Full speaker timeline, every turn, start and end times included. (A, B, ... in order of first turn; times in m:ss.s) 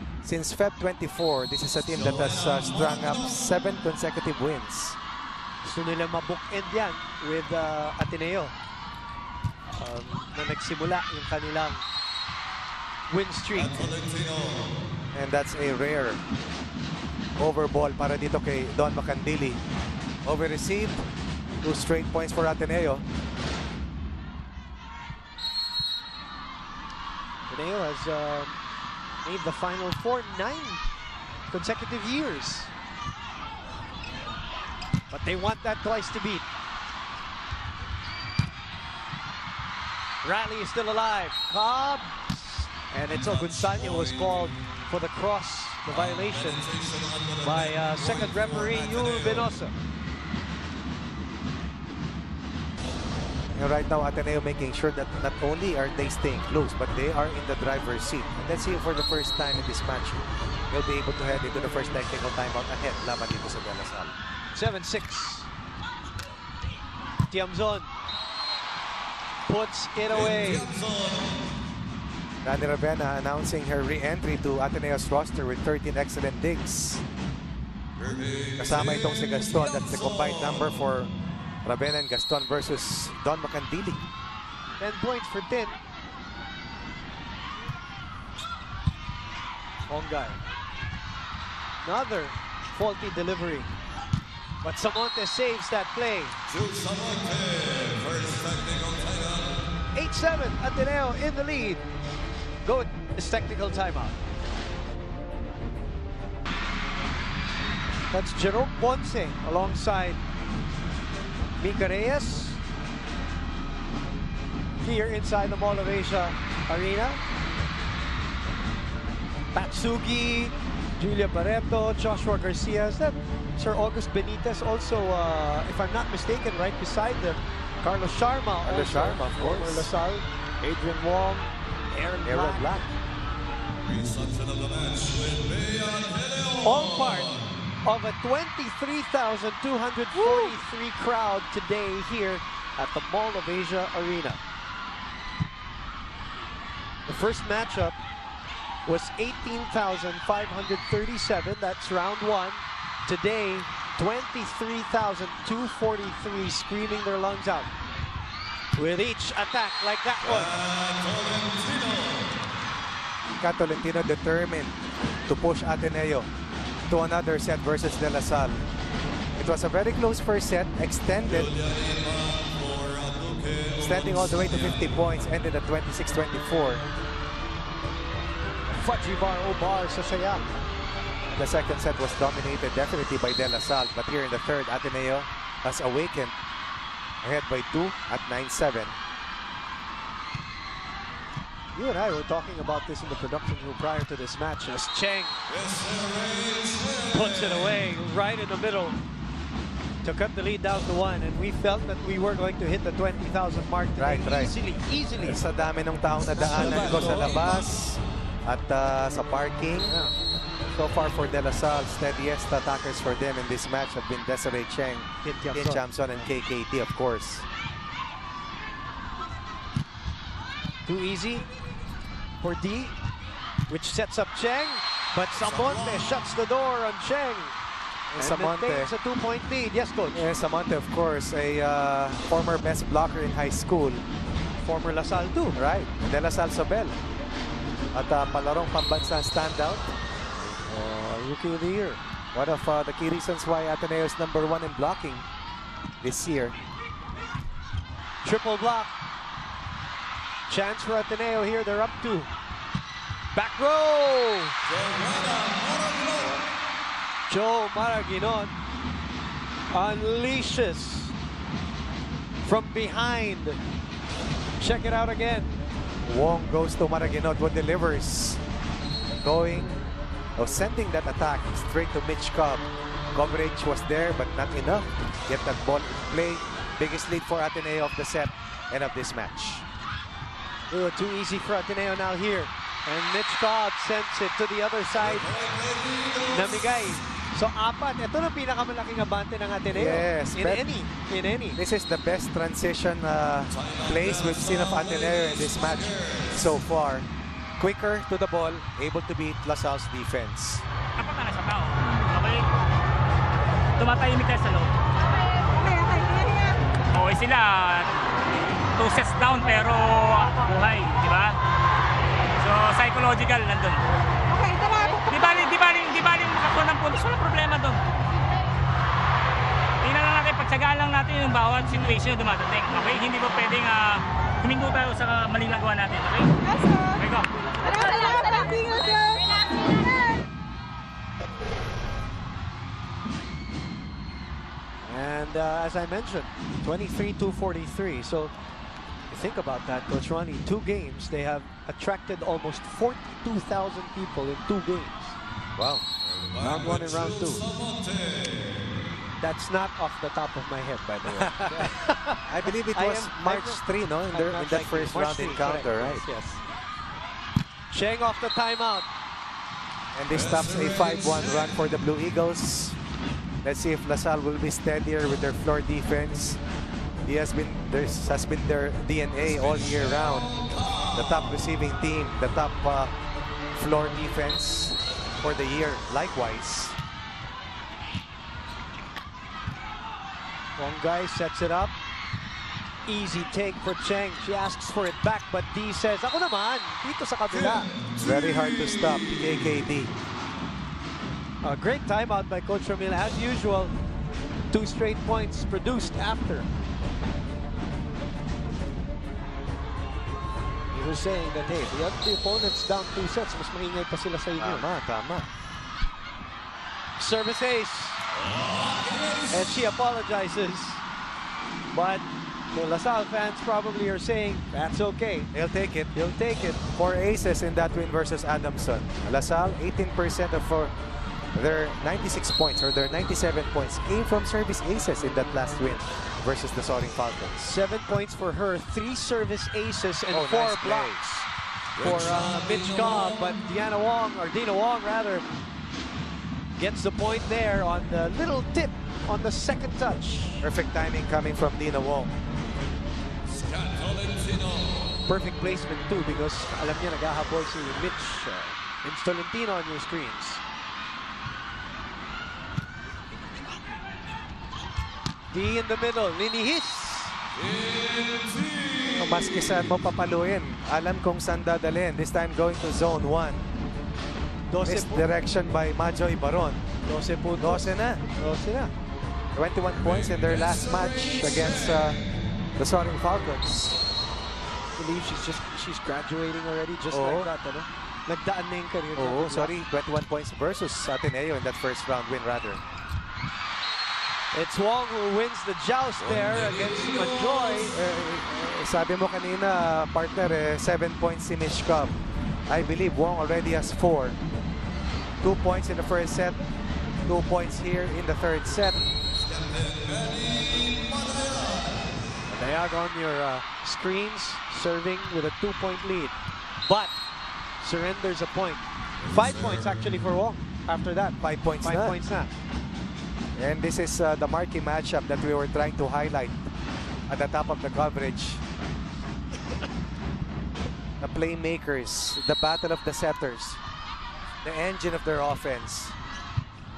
0:00.2-0:05.0 A
0:01.8-0:03.4 B
0:05.6-0:08.5 C
0:09.8-0:11.8 C
0:13.1-0:13.9 C
0:13.5-0:14.8 B
0:15.1-0:16.2 A
0:17.4-0:19.6 A
0:20.2-0:21.0 A
0:21.6-0:23.0 A
0:27.5-0:28.6 C
0:29.2-0:30.8 C
0:31.5-0:32.7 C
0:35.1-0:36.4 C
0:40.2-0:46.7 C
0:43.1-0:44.6 B
0:45.9-0:49.5 B
0:47.4-0:49.7 C
0:53.6-1:04.1 A
1:04.5-1:05.5 C
1:07.3-1:07.9 C
1:09.5-1:10.7 C
1:10.1-1:11.4 B
1:12.4-1:17.0 A
1:18.0-1:20.8 B
1:18.6-1:21.1 A
1:21.6-1:24.0 A
1:24.8-1:25.8 C
1:29.9-1:30.4 C
1:31.8-1:33.7 C
1:34.6-1:36.4 C
1:36.5-1:39.6 B
1:39.9-1:41.8 C
1:42.6-1:44.2 C
1:48.1-1:50.2 C
1:51.6-1:52.6 C
1:54.8-1:57.2 C
1:59.5-2:12.7 C
2:08.6-2:09.9 A
2:12.2-2:12.9 A
2:13.8-2:17.6 B
2:16.6-2:17.3 C
2:17.8-2:24.4 C
2:27.1-2:28.0 C
2:28.8-2:37.7 C
2:38.7-2:40.5 C
2:40.2-2:42.4 B
2:43.4-2:46.3 A
2:46.9-2:48.6 A
2:49.4-2:51.5 A
2:51.2-2:55.1 B
2:53.8-2:56.8 A
2:58.7-3:00.6 C
3:01.3-3:06.4 A
3:07.2-3:09.0 A
3:11.7-3:15.4 C
3:15.5-3:17.9 B
3:17.1-3:19.0 C
3:20.0-3:25.4 C
3:24.0-3:24.5 A
3:25.2-3:30.0 A
3:26.4-3:27.4 C
3:26.6-3:27.6 B
3:29.9-3:30.1 C
3:30.7-3:37.5 A
3:35.2-3:35.8 C
3:40.8-3:41.4 C
3:42.4-3:42.9 C
3:43.7-3:47.6 C
3:45.3-3:46.3 B
3:48.1-3:48.9 A
3:48.2-3:50.3 C
3:50.1-3:54.0 A
3:54.6-3:55.6 C
3:55.6-3:57.0 A
3:57.9-4:00.0 A
4:00.5-4:02.0 C
4:02.3-4:05.2 A
4:06.0-4:06.6 A
4:08.2-4:08.9 C
4:10.5-4:12.3 C
4:13.3-4:14.5 C
4:14.6-4:16.4 B
4:17.3-4:18.5 C
4:19.7-4:21.1 C
4:22.4-4:23.6 C
4:24.6-4:25.5 C
4:26.0-4:28.4 A
4:29.2-4:29.8 A
4:30.4-4:39.6 A
4:40.7-4:45.3 C
4:44.9-4:47.0 B
4:46.3-4:51.6 C
4:49.7-4:50.7 A
4:51.6-4:57.1 A
4:53.5-4:56.5 B
4:57.6-5:00.6 A
5:01.0-5:02.4 D
5:03.8-5:04.7 D
5:06.9-5:07.9 D
5:08.7-5:11.4 D
5:12.4-5:13.8 D
5:14.8-5:17.8 D
5:19.8-5:26.4 D
5:26.9-5:27.4 D
5:34.8-5:38.3 C
5:39.1-5:45.2 C
5:45.6-5:45.8 A
5:46.0-5:48.9 B
5:46.4-5:47.4 C
5:49.2-5:52.2 C
5:51.1-5:56.1 A
5:52.7-5:56.4 C
5:57.7-5:58.9 C
5:59.9-6:02.8 A
6:00.1-6:01.6 B
6:03.4-6:06.4 A
6:07.0-6:10.4 A
6:09.2-6:11.4 B
6:10.9-6:12.9 A
6:13.5-6:16.8 A
6:20.6-6:21.7 C
6:22.8-6:27.7 C
6:27.3-6:29.1 B
6:28.0-6:29.9 A
6:31.4-6:33.7 C
6:34.5-6:36.5 C
6:40.7-6:44.7 C
6:44.4-6:45.3 A
6:47.0-6:48.0 C
6:48.2-6:49.6 B
6:49.3-6:50.8 C
6:51.7-6:55.3 C
6:55.3-6:55.9 A
6:55.9-6:56.6 C
6:56.7-7:00.7 A
7:01.3-7:07.6 A
7:07.4-7:15.3 C
7:10.1-7:11.0 A
7:11.8-7:13.4 B
7:16.6-7:20.5 C
7:20.4-7:22.1 A
7:23.3-7:25.0 B
7:25.1-7:30.4 C
7:35.3-7:37.1 C
7:37.4-7:39.2 B
7:38.8-7:43.4 A
7:44.5-7:45.1 C
7:44.6-7:46.6 A
7:46.8-7:48.7 C
7:47.4-7:48.0 A
7:49.4-7:52.0 A
7:49.7-7:52.0 B
7:52.6-7:53.8 A
7:54.8-7:59.5 C
7:56.9-7:57.3 A
7:58.9-8:02.6 A
8:04.3-8:07.8 C
8:06.0-8:07.7 B
8:07.7-8:11.9 A
8:12.5-8:14.2 A
8:15.2-8:16.4 A
8:17.1-8:18.8 A
8:19.2-8:22.0 B
8:22.3-8:26.9 C
8:27.6-8:32.3 C
8:29.0-8:30.0 B
8:31.2-8:32.0 A
8:33.4-8:36.4 A
8:37.1-8:38.4 A
8:41.0-8:43.6 A
8:44.4-8:45.9 A